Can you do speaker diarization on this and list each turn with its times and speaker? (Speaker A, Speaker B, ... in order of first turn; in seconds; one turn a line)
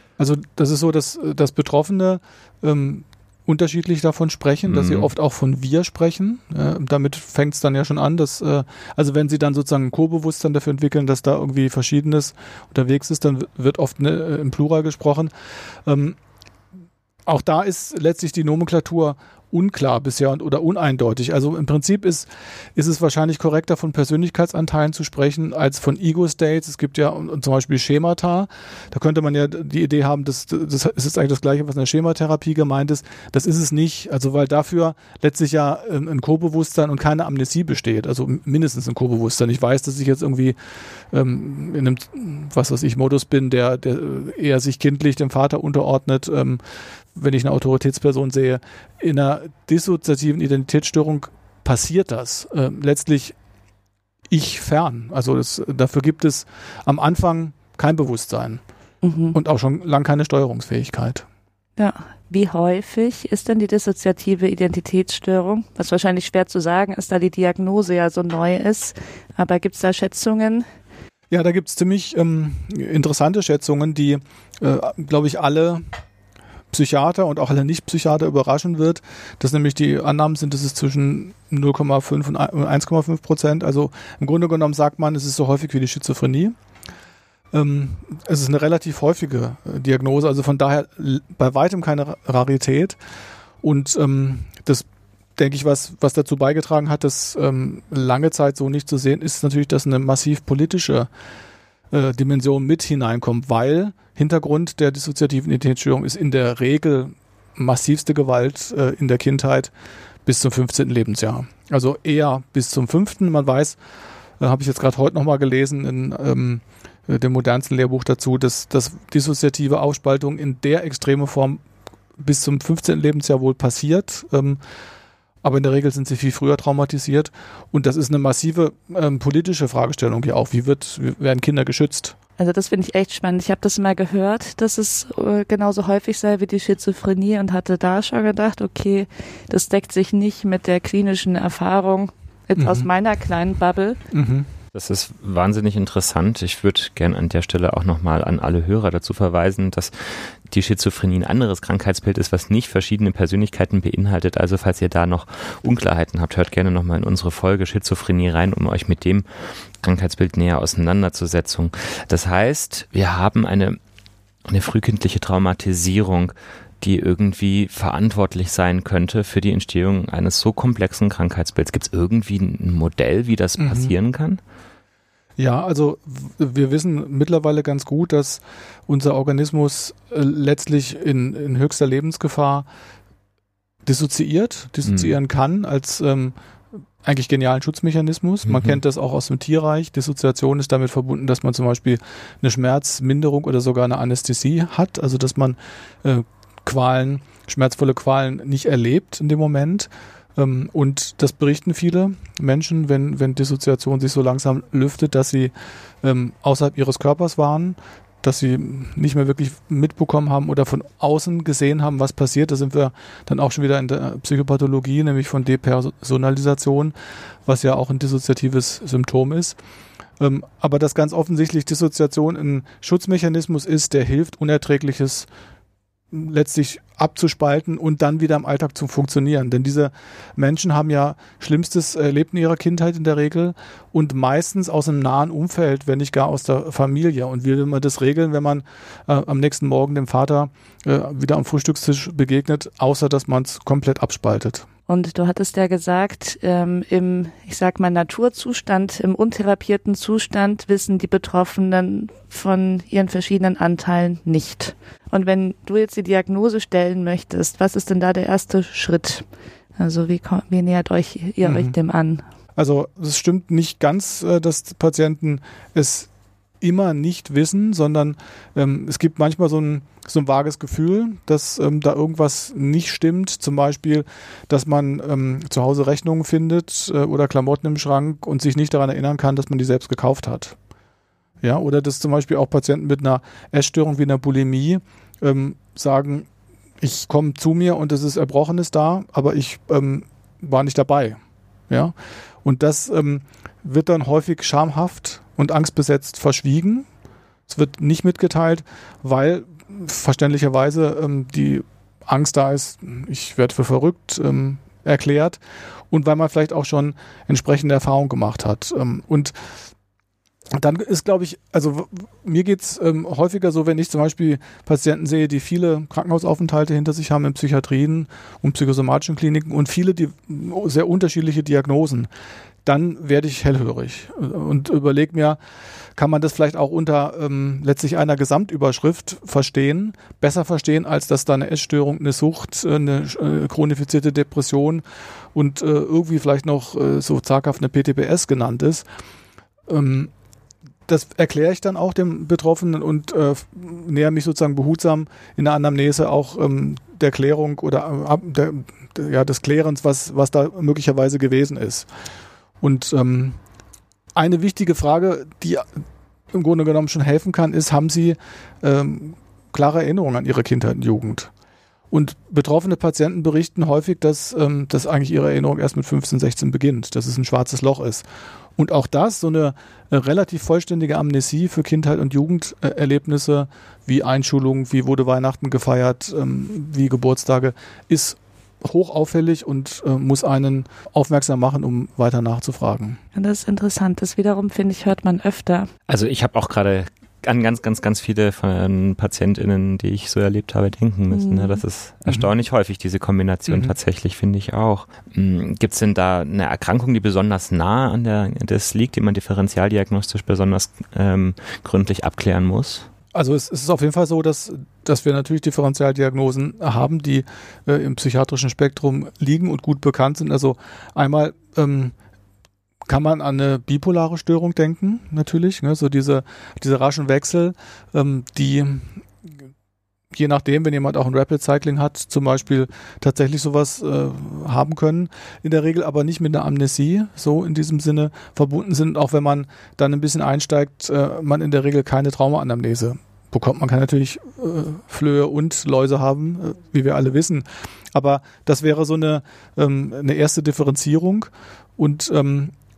Speaker A: 0.2-15.3
Speaker B: 4.7-5.1
Speaker A: 15.9-16.2
Speaker A: 17.3-40.6
Speaker A: 41.1-46.6
Speaker A: 47.1-53.4
Speaker A: 54.3-58.6
Speaker C: 59.0-59.4
Speaker A: 59.3-61.3
Speaker C: 61.8-70.7
Speaker A: 71.3-75.8
Speaker A: 76.7-86.6
Speaker A: 87.5-93.0
Speaker A: 93.6-94.9
Speaker A: 95.4-101.1
Speaker A: 101.9-109.7
Speaker A: 110.2-113.8
Speaker A: 114.4-121.6
Speaker A: 122.2-124.6
Speaker A: 125.4-132.2
Speaker C: 132.4-144.0
Speaker A: 142.6-142.9
Speaker A: 144.1-144.5
Speaker B: 144.7-163.8
Speaker B: 164.5-174.4
Speaker A: 173.6-173.9
Speaker A: 175.4-182.7
Speaker A: 183.8-186.4
Speaker B: 184.9-185.1
Speaker A: 187.0-216.9
Speaker B: 188.5-188.8
Speaker A: 217.5-219.6
Speaker A: 220.2-225.3
Speaker A: 226.1-244.7
Speaker C: 244.9-259.2
Speaker C: 259.8-262.2
Speaker A: 261.4-261.8
Speaker A: 262.6-266.1
Speaker A: 266.6-280.6
Speaker A: 281.4-286.3
Speaker A: 286.8-296.9
Speaker A: 297.5-309.3
Speaker A: 310.5-322.1
Speaker A: 322.6-325.4
Speaker A: 326.0-338.9
Speaker A: 339.7-340.1
Speaker A: 340.9-351.9
Speaker A: 352.6-353.4
Speaker A: 354.2-355.7
Speaker A: 356.3-361.3
Speaker A: 361.9-368.1
Speaker A: 368.6-383.0
Speaker C: 383.1-385.7
Speaker B: 385.9-402.9
Speaker C: 391.1-391.6
Speaker A: 393.5-393.7
Speaker A: 403.1-411.9
Speaker A: 412.9-419.0
Speaker A: 420.1-442.5